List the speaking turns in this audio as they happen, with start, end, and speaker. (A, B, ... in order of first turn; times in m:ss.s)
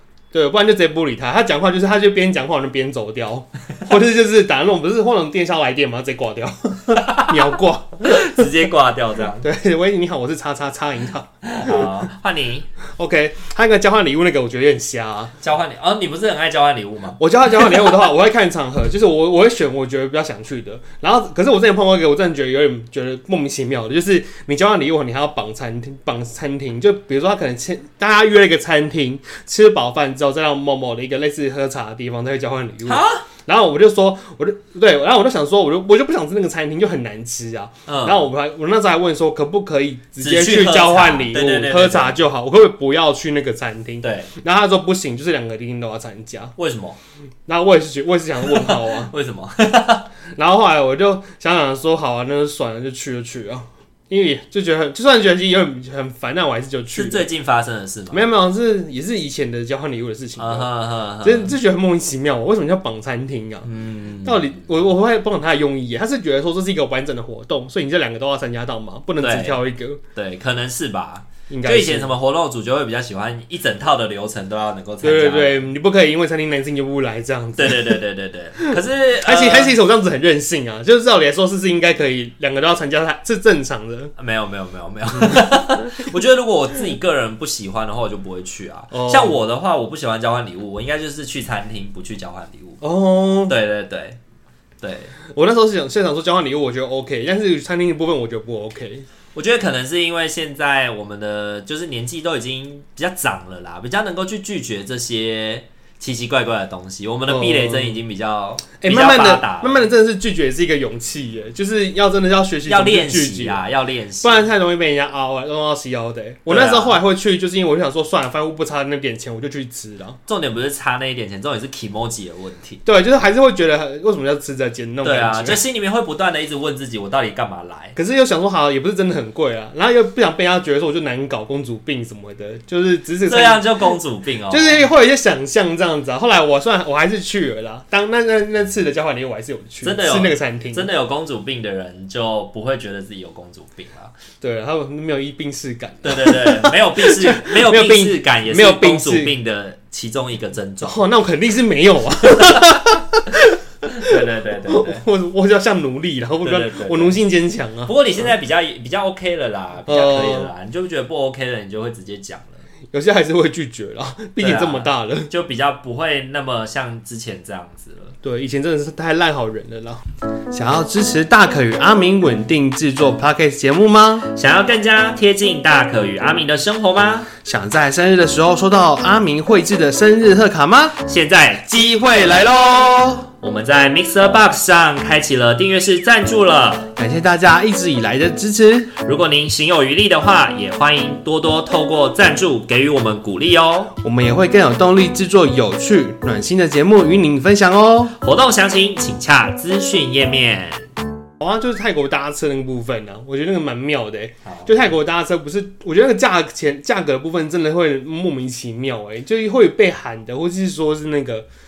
0:00.3-0:08.5 A
0:07.0-0:09.5 B
0:09.4-0:11.9 A
0:11.4-0:12.7 B
0:13.0-0:15.3 A
0:15.4-0:17.9 B
0:17.2-0:46.6 A
0:32.8-0:33.3 B
0:37.9-0:38.3 B
0:40.2-0:42.2 B
0:44.0-0:44.3 B
0:46.6-0:47.0 B
0:47.5-0:49.1 A
0:48.4-0:50.1 B
0:50.4-0:57.3 A
0:57.0-0:58.2 B
0:58.1-1:00.7 A
1:00.4-1:01.6 B
1:01.2-1:03.7 A
1:03.6-1:04.6 B
1:04.2-1:10.0 A
1:09.2-1:09.6 B
1:10.2-1:15.7 B
1:11.5-1:12.1 A
1:15.0-1:18.0 A
1:17.6-1:19.8 B
1:18.6-1:24.1 A
1:24.2-1:32.8 B
1:25.2-1:25.5 A
1:28.9-1:29.4 A
1:32.8-1:33.6 A
1:33.5-1:34.2 B
1:34.8-1:35.1 B
1:35.3-1:39.0 A
1:39.4-1:49.9 B
1:47.3-1:48.0 A
1:48.8-1:53.6 A
1:52.7-1:54.5 B
1:54.2-2:00.2 A
1:56.5-1:57.0 B
2:00.3-2:02.8 B
2:02.8-2:05.6 A
2:05.0-2:08.0 B
2:08.0-2:14.0 A
2:13.3-2:14.9 B
2:14.5-2:20.9 A
2:19.8-2:24.2 B
2:24.4-2:29.3 A
2:26.0-2:31.0 B
2:30.8-2:37.9 A
2:32.4-2:32.8 B
2:33.9-2:35.0 B
2:36.4-2:37.2 B
2:37.9-2:42.6 B
2:39.9-2:40.5 A
2:42.9-2:45.3 A
2:44.4-2:48.2 B
2:48.2-2:54.3 A
2:54.3-2:57.3 B
2:57.4-3:01.0 A
3:01.0-3:06.9 B
3:07.0-3:08.9 A
3:09.0-3:13.9 B
3:14.0-3:18.1 A
3:18.2-3:20.9 B
3:21.4-3:31.5 A
3:24.4-3:24.7 B